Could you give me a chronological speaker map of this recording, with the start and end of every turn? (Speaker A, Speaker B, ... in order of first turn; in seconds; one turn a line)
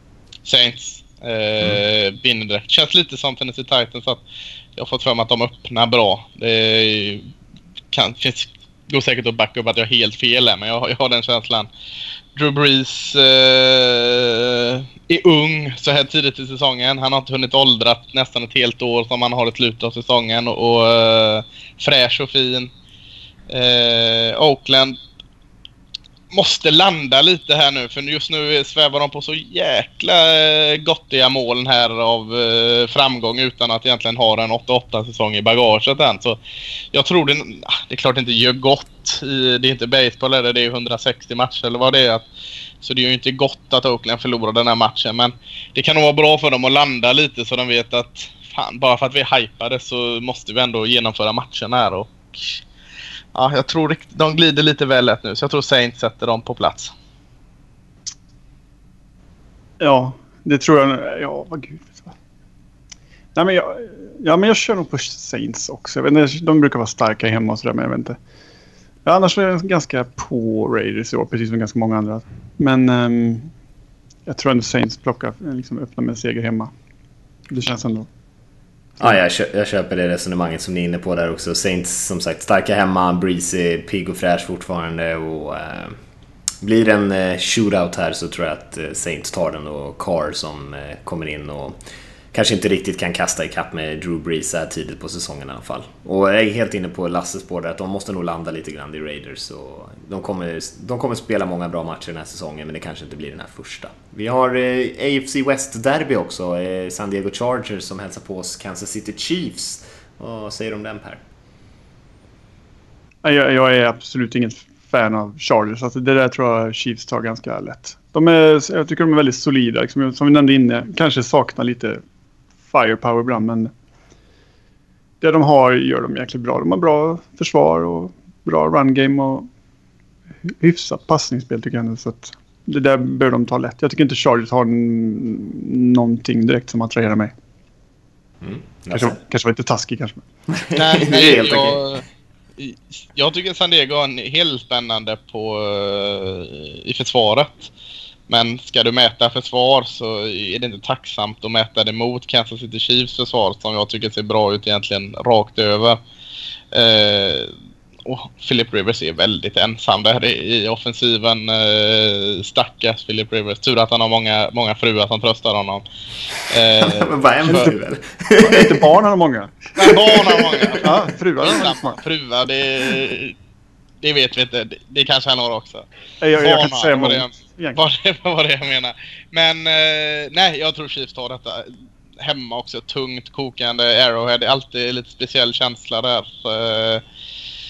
Speaker A: 0.5-4.2
Speaker A: 4.8-7.3
Speaker A: 7.9-11.7
Speaker A: 12.3-22.7
Speaker A: 23.5-25.0
Speaker A: 26.3-36.4
Speaker A: 36.9-42.3
Speaker A: 42.8-52.6
Speaker A: 53.4-56.9
Speaker B: 59.8-62.1
Speaker B: 63.4-68.2
Speaker B: 69.0-73.5
Speaker B: 74.3-76.7
Speaker B: 77.5-78.1
Speaker C: 79.0-86.0
Speaker C: 86.6-91.8
Speaker C: 92.3-111.2
Speaker B: 113.2-122.0
Speaker B: 122.7-123.7
Speaker B: 125.2-129.5
Speaker B: 130.6-137.3
Speaker C: 138.4-139.2
Speaker B: 138.9-140.2
Speaker C: 140.6-141.8
Speaker A: 140.8-142.0
Speaker A: 142.6-147.7
Speaker A: 148.3-156.0
Speaker A: 156.7-157.5
Speaker A: 158.1-165.8
Speaker A: 166.5-167.7
Speaker C: 166.7-168.8
Speaker B: 167.4-167.7
Speaker B: 168.4-169.6
Speaker A: 169.8-173.3
Speaker C: 169.9-170.8
Speaker B: 170.8-172.0
Speaker A: 174.0-175.8
Speaker B: 176.2-177.8
Speaker A: 176.4-187.0